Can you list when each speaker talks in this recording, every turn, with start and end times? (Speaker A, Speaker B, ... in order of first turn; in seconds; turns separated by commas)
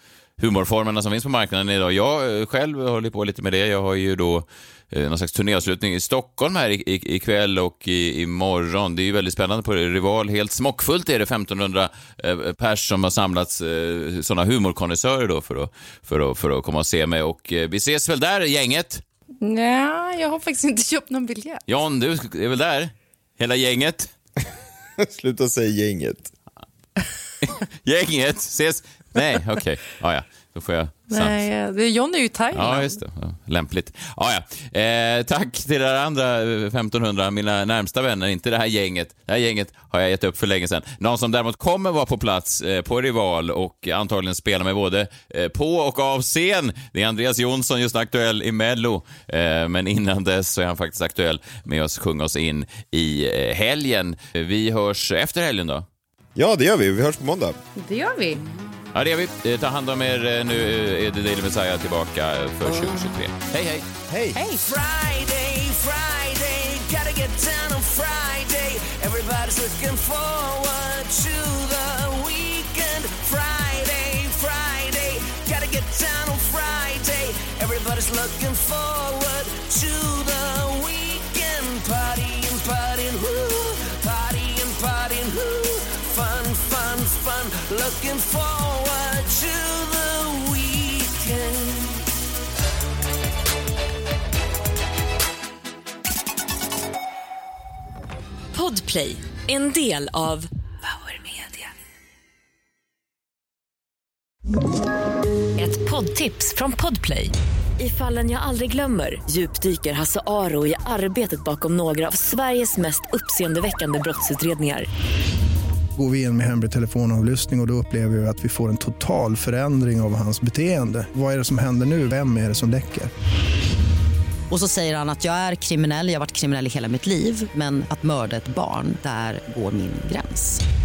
Speaker A: 0.4-19.0, Speaker B: 19.4-21.6, Speaker A: 21.7-24.1, Speaker C: 25.0-26.3, Speaker A: 27.4-31.4, Speaker B: 31.1-33.0, Speaker A: 32.5-55.9, Speaker C: 56.3-57.6, Speaker B: 57.8-58.4, Speaker A: 58.9-63.9, Speaker C: 64.1-64.4, Speaker B: 64.3-64.6, Speaker D: 64.9-71.1, Speaker D: 73.0-74.8, Speaker D: 75.5-79.1, Speaker D: 81.3-83.2, Speaker D: 84.0-85.4, Speaker D: 86.0-88.3, Speaker E: 98.5-101.7, Speaker E: 105.6-114.9, Speaker F: 116.0-123.1, Speaker G: 124.5-130.6